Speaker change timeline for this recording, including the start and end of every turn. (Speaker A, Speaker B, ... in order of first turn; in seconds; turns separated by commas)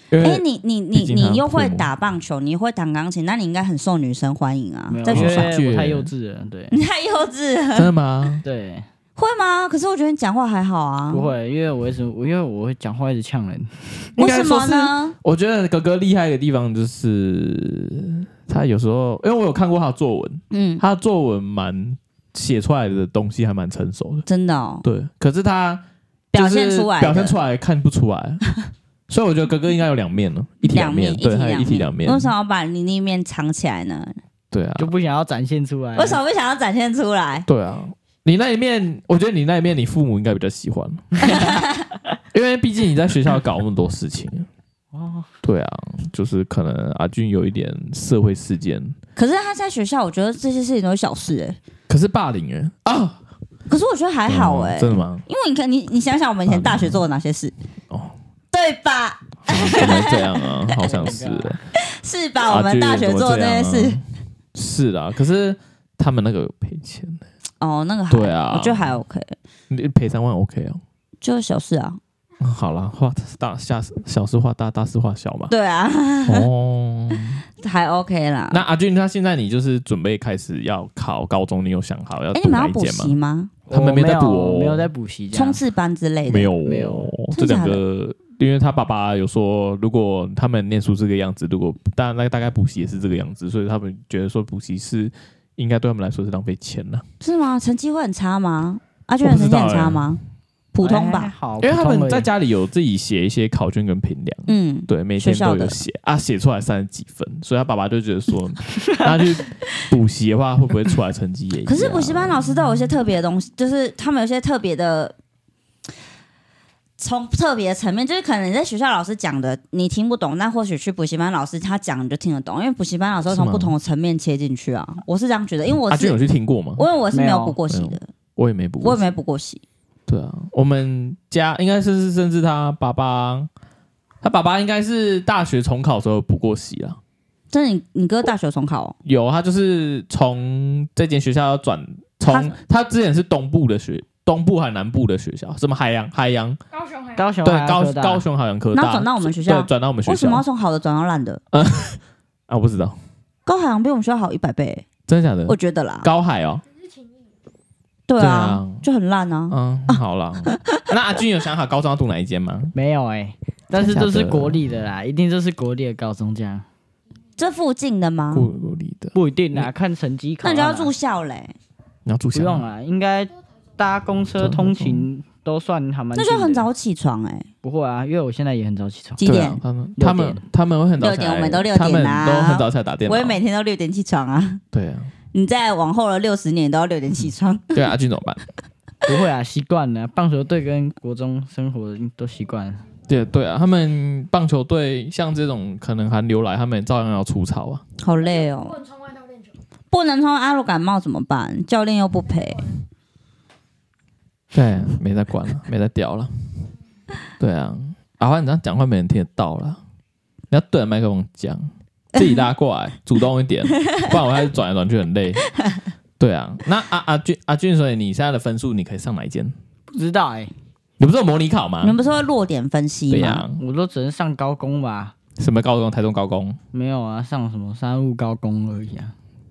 Speaker A: 0.1-1.9, Speaker B: 0.2-5.5, Speaker C: 4.9-6.7, Speaker A: 5.1-6.1, Speaker B: 6.7-7.9, Speaker A: 7.7-8.4, Speaker C: 8.4-8.8, Speaker B: 9.2-11.3, Speaker C: 11.1-14.1, Speaker B: 14.2-15.1, Speaker A: 14.2-24.2, Speaker B: 20.5-20.8, Speaker B: 24.2-24.8, Speaker A: 24.8-28.4, Speaker B: 26.3-27.4, Speaker A: 29.1-32.3, Speaker B: 30.7-34.2, Speaker A: 34.5-34.9, Speaker C: 34.8-36.2, Speaker B: 36.0-37.5, Speaker A: 37.5-41.4, Speaker B: 41.3-41.8, Speaker A: 42.3-44.5, Speaker C: 44.9-45.3, Speaker A: 45.4-49.0, Speaker B: 49.1-51.6, Speaker A: 51.9-53.2, Speaker B: 53.7-57.5, Speaker A: 54.3-55.2, Speaker A: 56.5-57.0, Speaker A: 57.9-58.1, Speaker B: 58.5-61.0, Speaker A: 59.5-61.6, Speaker C: 60.8-61.6, Speaker B: 61.7-64.0, Speaker A: 62.5-64.0, Speaker A: 64.5-67.2, Speaker B: 67.6-69.3, Speaker A: 68.1-69.0, Speaker A: 69.7-70.8, Speaker B: 71.2-72.0, Speaker A: 72.4-75.5, Speaker B: 75.5-76.5, Speaker A: 76.2-77.4, Speaker B: 77.6-78.6, Speaker A: 78.5-83.2, Speaker B: 82.3-83.5, Speaker C: 83.7-85.6, Speaker A: 83.7-84.9, Speaker B: 85.3-86.5, Speaker A: 86.2-97.0, Speaker C: 86.6-87.1, Speaker B: 87.3-87.8, Speaker B: 97.2-100.2, Speaker A: 99.2-100.1, Speaker B: 100.7-101.3, Speaker C: 100.8-102.3, Speaker A: 101.6-112.6, Speaker B: 104.5-105.8, Speaker B: 111.7-115.2, Speaker B: 117.0-126.2, Speaker A: 123.3-123.7, Speaker A: 125.9-126.8, Speaker B: 126.8-128.1, Speaker C: 127.1-127.6, Speaker A: 127.7-129.1, Speaker B: 128.8-129.6, Speaker A: 130.1-133.5, Speaker A: 134.2-137.0, Speaker B: 137.5-138.9, Speaker A: 139.0-146.6, Speaker B: 142.3-142.5, Speaker D: 146.7-147.3, Speaker C: 147.2-148.2, Speaker A: 147.4-150.4, Speaker B: 148.7-151.4, Speaker A: 151.5-153.0, Speaker B: 153.4-154.8, Speaker A: 155.1-156.6, Speaker B: 155.5-156.1, Speaker D: 156.8-157.1, Speaker B: 158.1-160.8, Speaker A: 158.2-158.8, Speaker A: 159.5-162.7, Speaker C: 162.7-166.6, Speaker A: 163.7-164.6, Speaker B: 167.4-168.5, Speaker A: 168.3-169.7, Speaker C: 169.1-170.9, Speaker B: 170.4-171.5, Speaker A: 172.1-172.7, Speaker C: 172.3-176.7, Speaker A: 174.4-175.1, Speaker B: 176.1-177.5, Speaker C: 177.6-179.2, Speaker B: 179.2-179.6, Speaker A: 179.2-183.4, Speaker C: 180.0-180.4, Speaker B: 181.0-184.6, Speaker A: 184.7-185.1, Speaker B: 185.3-187.8, Speaker A: 187.7-188.4, Speaker C: 189.1-192.8, Speaker A: 193.1-197.8, Speaker B: 198.0-198.8, Speaker D: 198.2-199.5, Speaker B: 199.9-202.8, Speaker A: 204.5-206.3, Speaker A: 207.4-209.8, Speaker A: 210.5-215.4, Speaker B: 212.2-212.5, Speaker A: 216.2-219.5, Speaker C: 219.9-220.5, Speaker A: 221.0-222.0, Speaker B: 221.8-223.4, Speaker A: 223.1-223.6, Speaker C: 223.6-225.1, Speaker A: 225.4-226.6, Speaker C: 226.7-229.1